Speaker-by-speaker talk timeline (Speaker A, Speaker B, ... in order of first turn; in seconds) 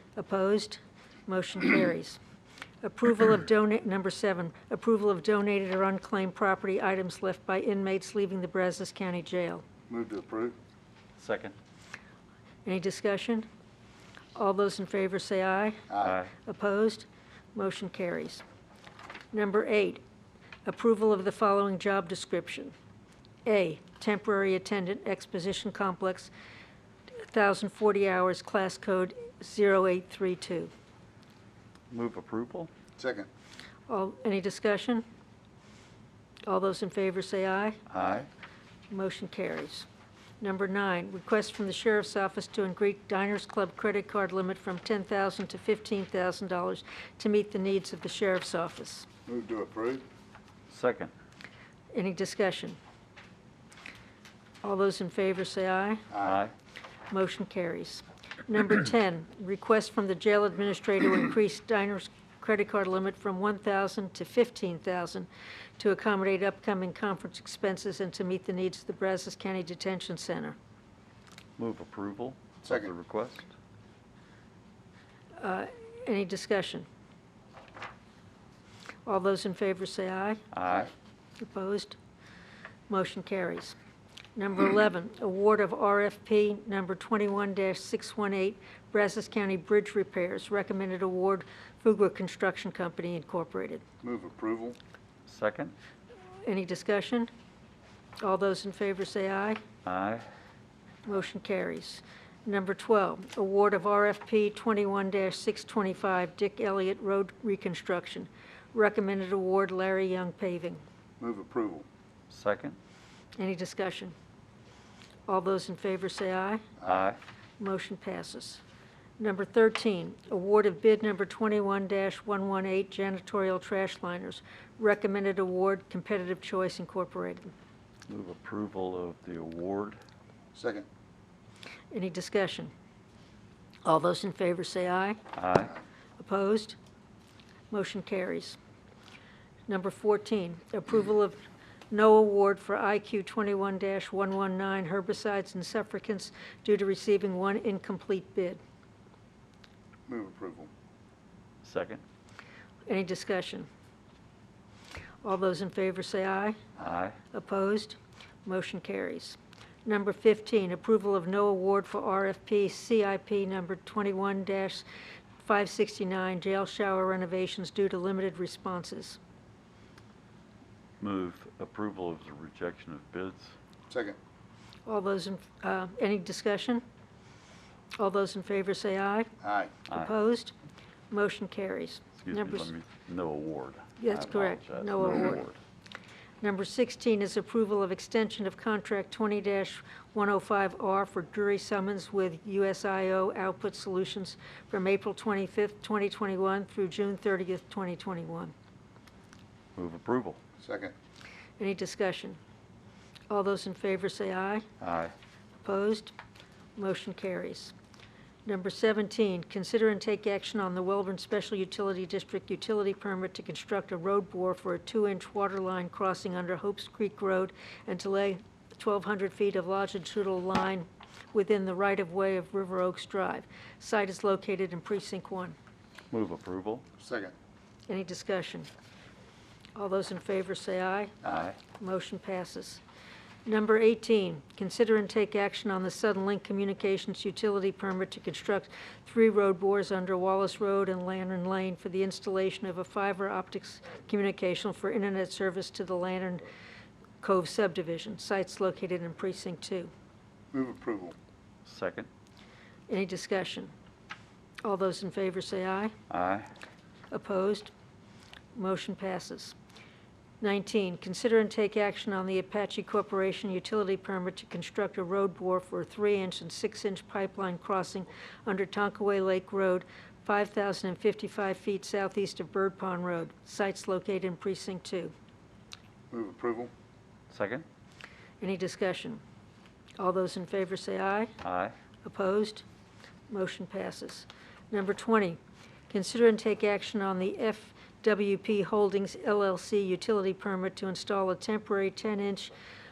Speaker A: 0.2-2.2, 2.8-9.6, 12.7-13.5, 14.4-18.4, 19.3-20.0, 20.7-22.7, 23.4-26.3, 27.2-30.7, 33.9-35.0, 36.5-37.8, 38.9-39.9, 40.4-49.1, 51.9-52.8, 54.6-56.0, 57.1-70.6, 75.4-76.9, 79.1-80.4, 81.4-82.0, 82.9-83.8, 84.4-93.8, 96.5-97.3, 98.2-99.6, 101.1-110.8, 113.4-114.2, 115.3-116.7, 117.6-118.6, 119.2-127.5, 131.9-132.7, 133.8-135.2, 136.2-136.8, 137.7-138.6, 139.7-148.6, 152.9-153.7, 155.2-156.6, 157.3-164.8, 165.4-169.2, 174.9-176.8, 178.0-179.3, 179.9-180.5, 181.1-182.7, 184.0-185.5, 186.4-198.5, 201.6-202.4, 203.3-204.7, 205.6-206.1, 206.8-207.7, 208.5-225.6, 227.9-228.7, 229.8-231.2, 231.7-232.8, 233.5-246.5, 247.2-249.9, 252.9-253.7, 254.6-255.9, 257.1-257.7, 258.6-259.6, 260.4-275.1, 278.4-279.2, 280.0-281.3, 282.0-282.6, 283.3-285.4, 285.9-292.5
Speaker B: 9.9-10.6, 15.9-16.2, 33.0-33.3, 49.3-50.0, 56.1-56.4, 72.6-72.9, 94.0-94.8, 111.2-111.9, 116.8-117.0, 130.6-130.9, 150.1-150.7, 173.9-174.2, 179.4-179.7, 200.6-200.9, 227.0-227.3, 250.5-251.2, 276.1-276.7
Speaker C: 11.2-11.6, 16.0-16.3, 31.9-32.7, 37.9-38.3, 50.7-51.1, 56.2-56.5, 71.6-73.5, 80.5-80.9, 95.3-95.8, 99.8-100.2, 112.3-112.8, 116.8-117.2, 128.1-130.0, 135.3-135.7, 151.6-152.0, 156.8-157.2, 171.0-173.5, 182.2-185.6, 199.8-200.4, 204.8-205.1, 226.1-226.8, 231.2-231.6, 251.7-252.1, 256.1-256.5, 277.3-277.7, 281.4-281.8